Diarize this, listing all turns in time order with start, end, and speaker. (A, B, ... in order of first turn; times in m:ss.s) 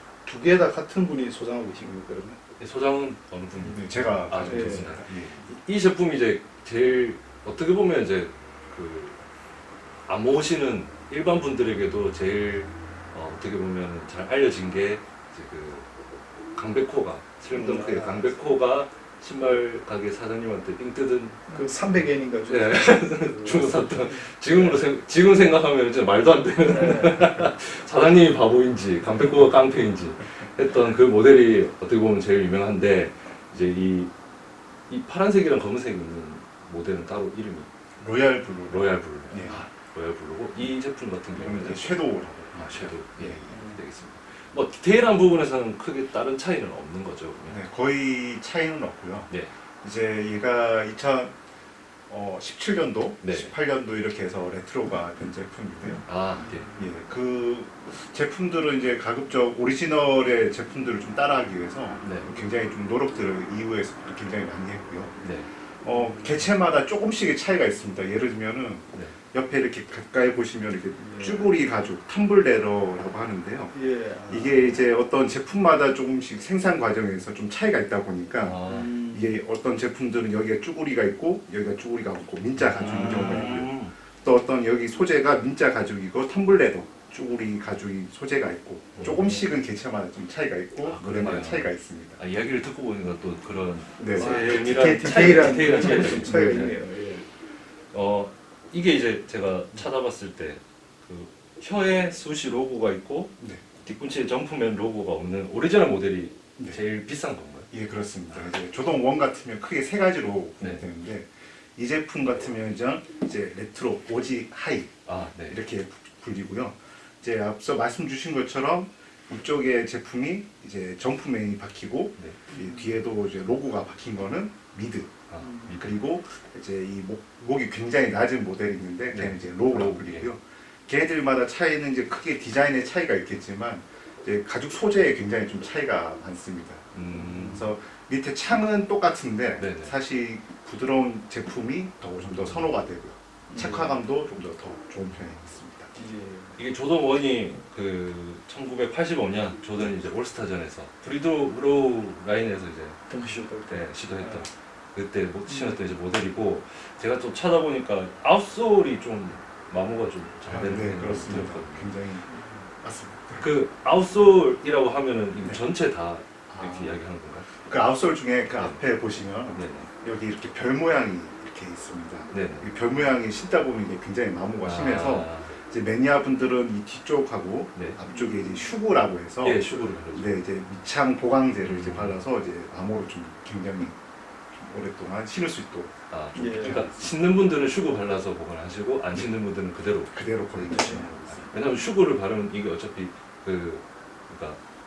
0:00.2-0:02.4 A
0:02.6-0:09.2 B
0:03.6-0:05.4 C
0:04.4-0:04.8 A
0:10.1-0:15.9 B
0:16.5-0:21.5 B
0:17.5-0:18.3 A
0:21.5-0:24.9 A
0:22.5-0:34.1 B
0:26.6-0:27.5 A
0:34.9-0:37.7 B
0:38.0-0:39.6 C
0:38.7-0:47.6 B
0:41.3-0:43.6 C
0:43.5-0:43.8 A
0:47.5-0:51.3 C
0:52.1-0:56.1 C
0:53.2-0:53.5 B
0:56.1-0:56.7 B
0:56.7-1:05.2 C
1:02.0-1:02.3 B
1:05.2-1:05.5 B
1:05.8-1:13.8 C
1:05.9-1:06.3 A
1:11.0-1:11.5 A
1:13.7-1:14.6 A
1:14.3-1:18.6 C
1:18.4-1:18.9 B
1:18.7-1:19.3 A
1:19.1-1:32.2 C
1:22.6-1:23.9 B
1:22.8-1:23.6 A
1:29.0-1:29.4 A
1:30.8-1:36.8 B
1:34.0-1:34.9 C
1:34.1-1:37.2 A
1:35.8-1:36.3 C
1:37.9-1:47.7 B
1:43.4-1:43.6 C
1:47.7-2:16.9 C
1:50.6-1:50.8 B
1:55.0-1:55.6 B
2:05.3-2:05.9 B
2:09.1-2:10.3 B
2:16.9-2:17.7 B
2:17.1-2:17.7 A
2:17.5-2:25.9 C
2:19.6-2:19.9 B
2:22.4-2:22.7 B
2:23.5-2:24.0 A
2:25.9-2:26.6 A
2:26.6-2:41.9 B
2:33.1-2:34.4 A
2:35.5-2:35.8 A
2:40.5-2:42.2 C
2:42.8-2:43.5 C
2:43.4-2:47.5 B
2:46.5-2:47.0 C
2:47.5-3:04.0 C
2:49.5-2:49.9 B
2:52.3-2:52.7 B
2:54.6-2:55.5 B
2:58.1-2:58.7 A
2:59.4-3:00.4 B
3:01.6-3:02.2 B
3:04.5-3:07.2 C
3:06.1-3:14.6 B
3:06.3-3:06.8 A
3:10.1-3:11.5 C